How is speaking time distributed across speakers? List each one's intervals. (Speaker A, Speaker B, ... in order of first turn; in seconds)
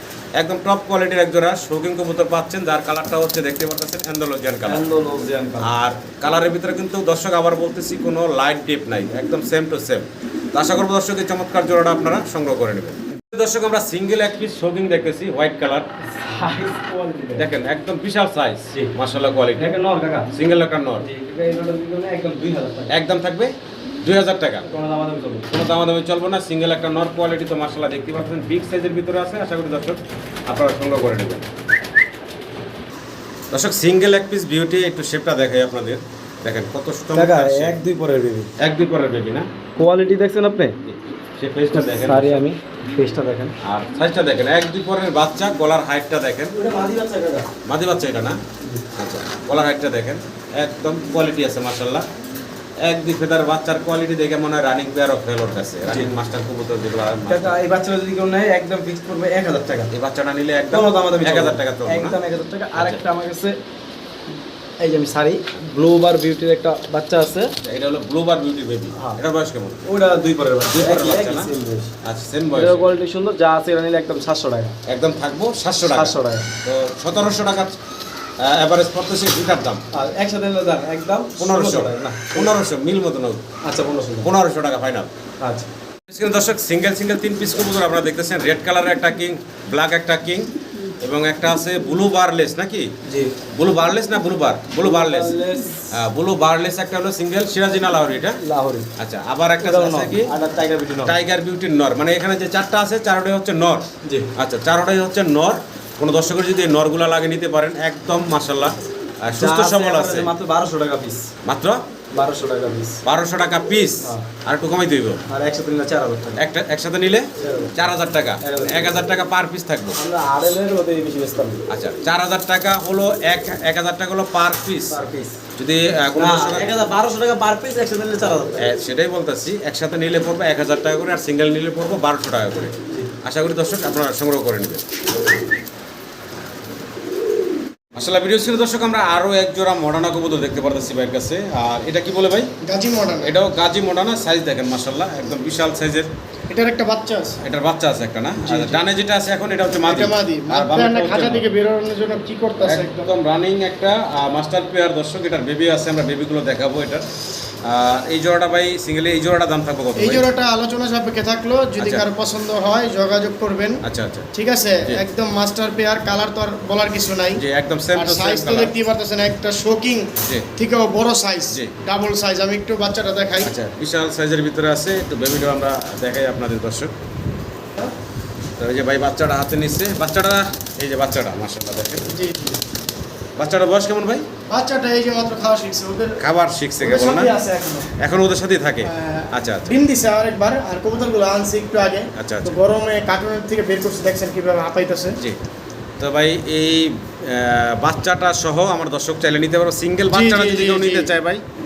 Speaker A: 0.4-4.8, 5.6-15.9, 17.4-19.8, 20.3-21.1, 22.9-23.5, 24.0-24.7, 25.5-31.5, 33.5-37.8, 38.6-39.5, 40.8-42.4, 43.6-46.5, 47.6-48.4, 49.0-52.0, 52.8-57.6, 59.9-62.2, 62.7-63.0, 67.6-69.8, 70.7-71.5, 72.0-72.9, 74.9-77.8, 78.4-79.8, 81.4-83.4, 84.2-85.1, 86.1-90.5, 91.0-92.8, 93.5-95.3, 95.9-98.4, 99.0-100.3, 101.0-110.3, 111.4-111.8, 113.0-115.2, 116.4-120.0, 121.7-126.7, 128.6-134.8, 137.9-142.5, 143.2-146.1, 147.4-151.4, 152.6-157.1, 157.6-160.2, 161.8-162.0, 163.8-164.3, 167.3-168.8, 173.4-176.9, 178.6-182.1, 183.4-184.2, 186.2-187.3, 187.9-189.8, 192.2-192.6, 196.0-201.4
Speaker B: 4.7-5.7, 16.1-17.5, 19.6-20.3, 21.0-22.9, 24.6-25.5, 37.1-38.5, 39.8-40.8, 41.7-43.5, 46.5-47.5, 57.3-59.9, 60.7-63.6, 64.8-67.5, 69.0-69.2, 69.8-71.9, 72.5-74.7, 75.9-76.5, 79.9-82.5, 83.6-84.3, 85.4-85.7, 93.0-93.3, 94.8-95.9, 98.4-98.9, 99.6-101.1, 104.0-104.3, 109.4-111.3, 112.1-113.0, 115.3-116.4, 117.4-117.7, 118.4-119.0, 120.0-121.7, 124.9-125.4, 126.2-128.7, 148.4-148.7
Speaker C: 142.6-143.3, 146.5-147.4, 149.8-153.1, 160.0-163.8, 164.3-167.4, 167.9-173.5, 182.1-182.6, 184.5-186.1, 186.8-187.9, 188.8-195.2, 200.1-201.1